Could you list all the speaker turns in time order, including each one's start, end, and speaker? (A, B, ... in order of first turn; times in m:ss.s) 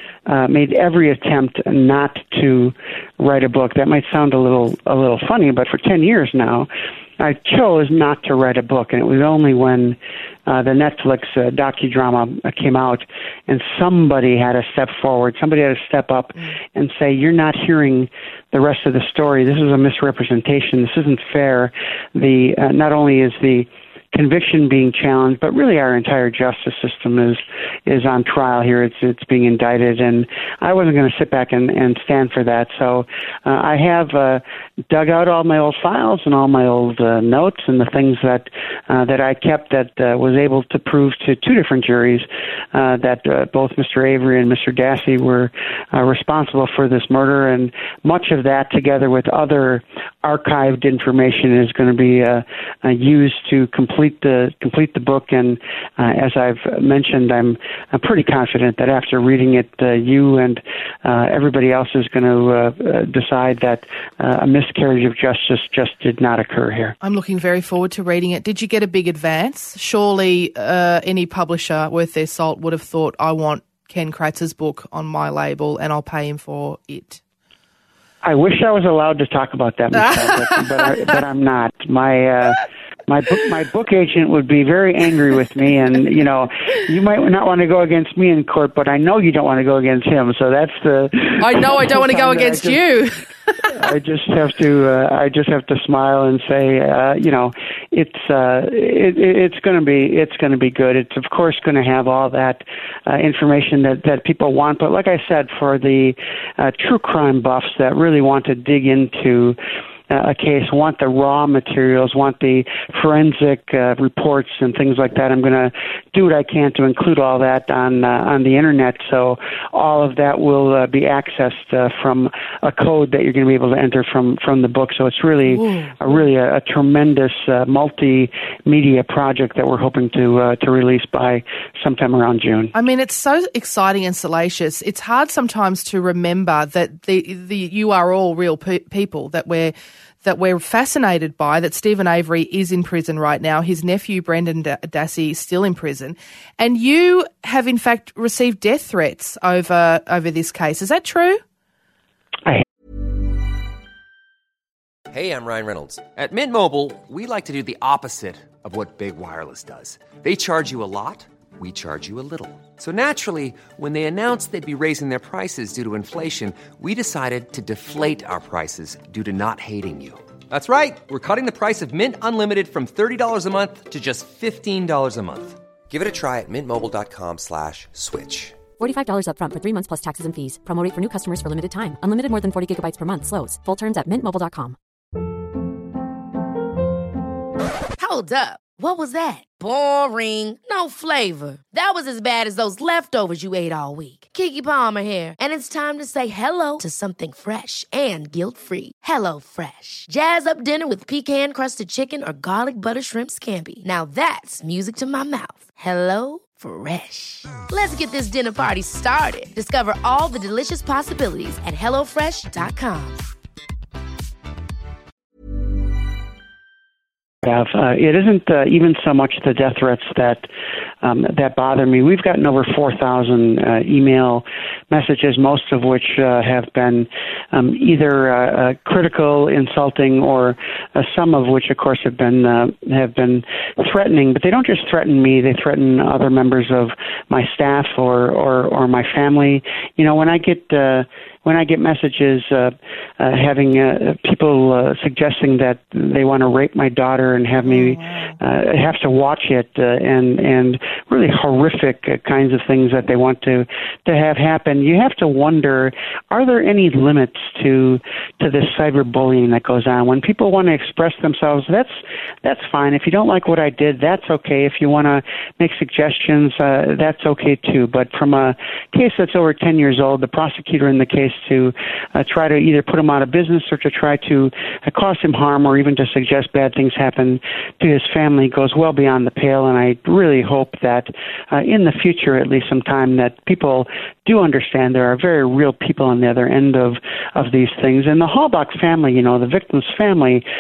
0:00.3-1:07.0 A
1:07.0-1:17.2 B
1:18.2-1:32.8 A
1:31.4-1:33.2 B
1:33.7-1:49.6 A
1:50.1-2:12.7 A
2:05.5-2:06.0 B
2:12.7-2:31.4 B
2:35.1-2:58.6 C
2:58.8-3:04.8 D
3:08.0-3:33.2 E
3:37.4-3:40.5 A
3:41.0-4:50.5 A
4:07.6-4:08.4 B